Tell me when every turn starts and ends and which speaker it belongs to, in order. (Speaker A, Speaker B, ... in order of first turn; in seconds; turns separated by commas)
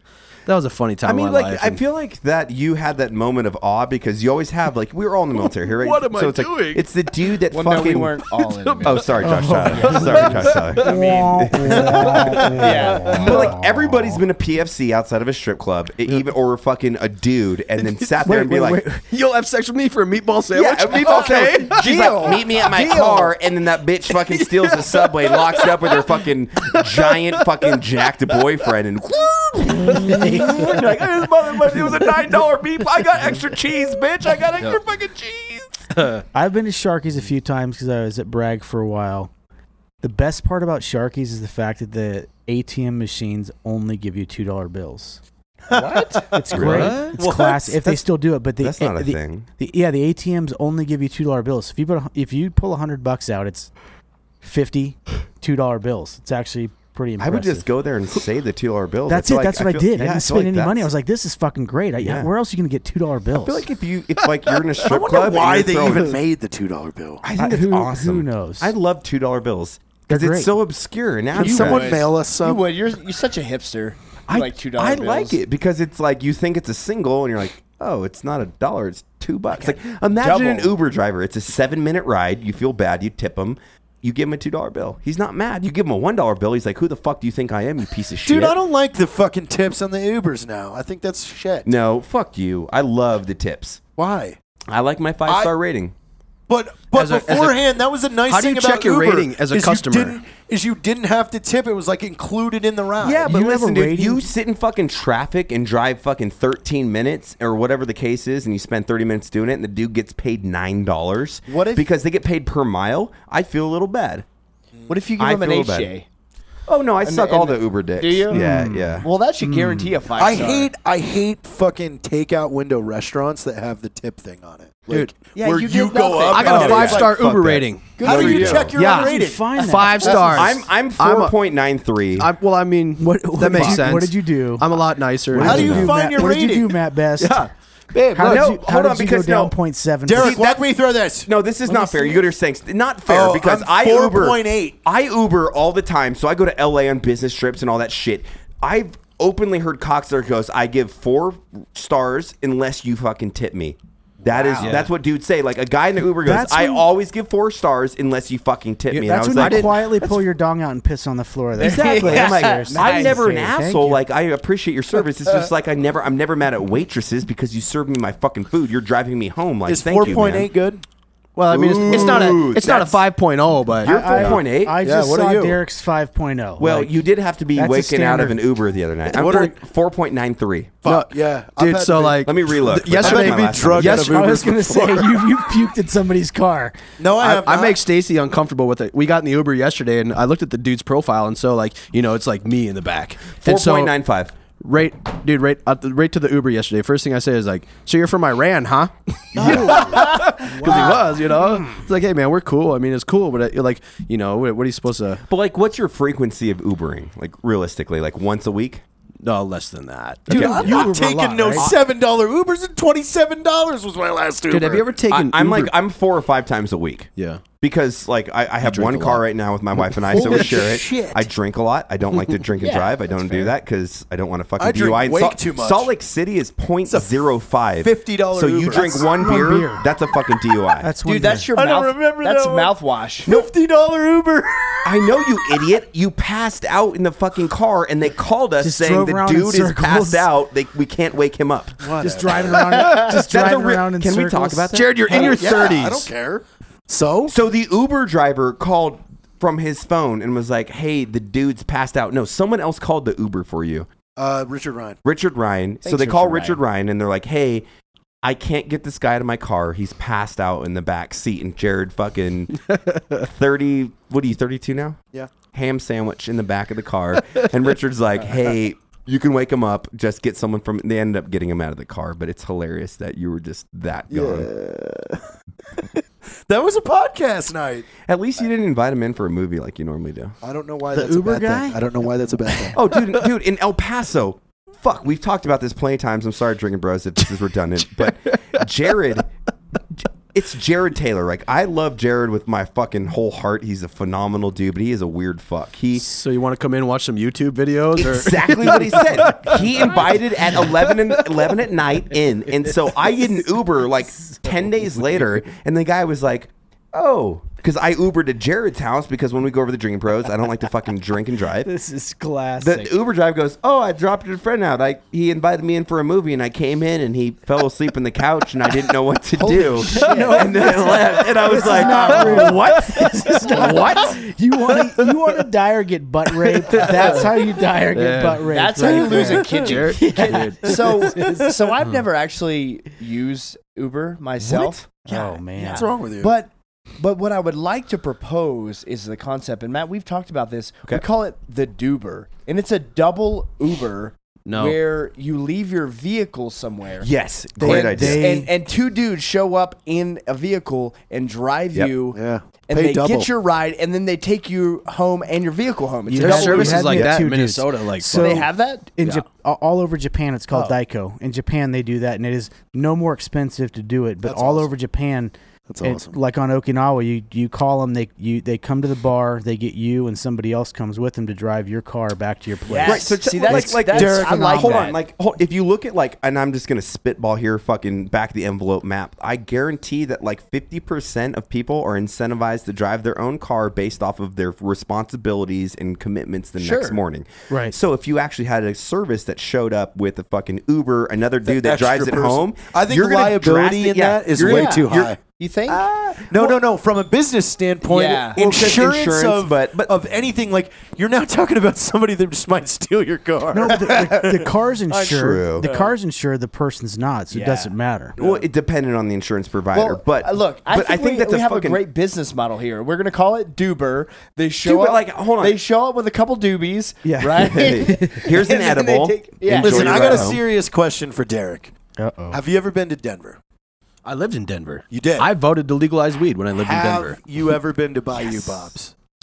Speaker A: 0.5-1.8, Speaker B: 1.1-8.2, Speaker A: 5.4-7.4, Speaker C: 7.5-13.6, Speaker A: 8.2-9.2, Speaker B: 8.8-18.9, Speaker D: 9.2-14.1, Speaker A: 9.7-11.0, Speaker A: 12.5-13.0, Speaker A: 17.8-18.3, Speaker D: 18.2-19.0, Speaker A: 19.0-22.8, Speaker B: 20.5-35.9, Speaker C: 21.0-23.3, Speaker A: 24.1-28.7, Speaker A: 29.8-31.0, Speaker D: 29.9-30.8, Speaker A: 36.0-36.2, Speaker D: 36.3-39.3, Speaker D: 40.0-45.2, Speaker E: 45.7-47.1, Speaker C: 45.8-46.2, Speaker D: 46.3-53.7, Speaker B: 46.5-48.0, Speaker A: 46.6-47.1, Speaker B: 48.6-49.5, Speaker D: 54.4-57.7, Speaker B: 57.2-60.9, Speaker D: 59.1-63.7, Speaker B: 62.0-62.3, Speaker B: 63.4-66.2, Speaker A: 64.2-64.9, Speaker E: 64.8-67.2, Speaker B: 67.2-72.0, Speaker D: 67.3-68.7, Speaker D: 70.1-70.6, Speaker E: 71.3-72.6, Speaker C: 71.4-75.4, Speaker B: 74.3-88.6, Speaker C: 79.5-80.8, Speaker E: 88.2-91.7, Speaker B: 91.7-93.8, Speaker E: 94.0-94.4, Speaker B: 94.7-95.9, Speaker E: 95.2-95.5, Speaker E: 96.5-103.3, Speaker A: 96.9-97.6, Speaker A: 98.3-100.2, Speaker B: 103.0-114.2, Speaker D: 103.2-104.3, Speaker C: 111.5-111.9, Speaker C: 114.9-116.1, Speaker B: 115.2-115.9, Speaker B: 116.7-119.1, Speaker C: 117.0-120.7, Speaker D: 118.3-120.0, Speaker E: 120.2-127.4, Speaker A: 124.9-125.1, Speaker C: 125.3-127.2, Speaker A: 126.3-131.3, Speaker B: 126.5-128.7, Speaker C: 128.0-128.7, Speaker E: 128.0-129.6, Speaker D: 128.8-130.5, Speaker E: 130.1-130.4, Speaker B: 130.2-132.3, Speaker A: 132.2-135.9, Speaker D: 133.0-134.7, Speaker B: 133.5-133.9, Speaker D: 135.3-137.5, Speaker B: 135.4-135.9, Speaker E: 135.4-136.8, Speaker A: 137.2-138.5, Speaker D: 138.1-140.4, Speaker B: 138.2-139.6, Speaker E: 140.1-142.2, Speaker B: 140.2-140.6, Speaker B: 141.3-160.1, Speaker E: 143.1-144.8, Speaker C: 154.2-154.8, Speaker A: 154.6-154.9, Speaker D: 156.2-156.9, Speaker A: 158.9-159.9, Speaker D: 159.0-164.0, Speaker C: 161.6-163.5, Speaker B: 161.6-170.5, Speaker E: 169.7-170.8, Speaker A: 171.4-174.4, Speaker B: 171.5-173.0, Speaker E: 171.9-172.4, Speaker B: 173.8-174.8, Speaker D: 173.8-177.0, Speaker E: 174.2-175.6, Speaker B: 176.6-180.8, Speaker D: 177.6-178.4, Speaker E: 179.1-179.6, Speaker E: 180.8-185.2, Speaker A: 180.8-184.2, Speaker B: 182.2-184.2, Speaker D: 183.9-186.8, Speaker E: 187.0-187.8, Speaker A: 187.2-193.9, Speaker B: 193.4-194.3, Speaker A: 194.6-205.2, Speaker D: 199.4-201.1, Speaker B: 199.4-199.9, Speaker C: 199.9-200.9, Speaker B: 205.3-208.8, Speaker A: 209.2-210.6, Speaker B: 210.3-210.9, Speaker E: 210.3-215.0, Speaker D: 210.3-211.7, Speaker B: 211.6-211.8, Speaker A: 214.5-215.7, Speaker B: 215.1-217.1, Speaker A: 217.2-217.4, Speaker B: 217.6-230.9, Speaker A: 218.6-219.2, Speaker A: 219.8-220.6, Speaker E: 220.1-221.3, Speaker A: 222.1-222.4, Speaker C: 222.6-223.5, Speaker E: 224.6-225.9, Speaker E: 226.9-227.2, Speaker E: 227.8-229.2, Speaker D: 228.7-229.9, Speaker D: 230.8-231.5, Speaker C: 231.0-233.5, Speaker E: 231.2-235.7, Speaker B: 234.8-241.8, Speaker D: 238.6-240.3, Speaker E: 241.8-242.8, Speaker D: 241.9-244.8, Speaker C: 242.8-243.1, Speaker B: 242.8-245.4, Speaker A: 244.7-246.1, Speaker E: 245.1-247.4, Speaker B: 247.3-253.9, Speaker E: 254.2-255.0, Speaker B: 255.0-257.6, Speaker C: 255.8-256.6, Speaker B: 258.2-262.6, Speaker A: 262.7-263.3, Speaker B: 263.2-274.5, Speaker E: 274.1-275.2, Speaker E: 276.5-277.9, Speaker B: 278.0-280.4, Speaker E: 280.4-282.9, Speaker D: 280.9-281.8, Speaker B: 282.7-289.3, Speaker A: 288.1-288.6, Speaker B: 290.3-296.1, Speaker A: 296.0-301.2, Speaker B: 298.0-311.7, Speaker D: 311.6-312.9, Speaker B: 312.6-322.6, Speaker C: 319.4-322.6, Speaker D: 319.8-331.4, Speaker A: 322.1-325.1, Speaker C: 323.6-323.9, Speaker A: 326.5-327.4, Speaker C: 326.8-327.3, Speaker A: 327.9-331.1, Speaker C: 328.5-334.8, Speaker B: 334.4-334.9, Speaker D: 335.1-335.9, Speaker E: 335.1-336.3, Speaker C: 335.5-347.1, Speaker A: 344.5-344.8, Speaker B: 347.0-348.4, Speaker D: 347.6-348.5, Speaker C: 347.6-357.0, Speaker E: 352.1-353.3, Speaker A: 356.1-358.5, Speaker D: 356.2-373.1, Speaker B: 356.9-357.2, Speaker C: 358.1-358.9, Speaker C: 360.5-360.8, Speaker E: 364.2-364.7, Speaker E: 365.7-366.1, Speaker C: 372.7-375.0, Speaker B: 372.8-395.1, Speaker E: 373.5-375.0, Speaker C: 386.6-387.0, Speaker D: 387.5-387.8, Speaker E: 391.4-395.2, Speaker C: 394.4-395.9, Speaker B: 395.7-396.5, Speaker E: 396.2-405.1, Speaker C: 397.9-398.4, Speaker B: 398.3-399.9, Speaker D: 403.5-408.2, Speaker C: 403.7-404.0, Speaker B: 405.1-405.7, Speaker C: 405.6-405.9, Speaker C: 407.3-408.5, Speaker B: 408.2-411.8, Speaker C: 409.7-420.4, Speaker B: 414.6-415.6, Speaker D: 417.0-418.3, Speaker B: 417.4-420.4, Speaker E: 419.5-421.7, Speaker D: 422.0-422.4, Speaker E: 422.3-423.4, Speaker A: 424.1-427.2, Speaker E: 424.9-425.3, Speaker E: 426.5-428.9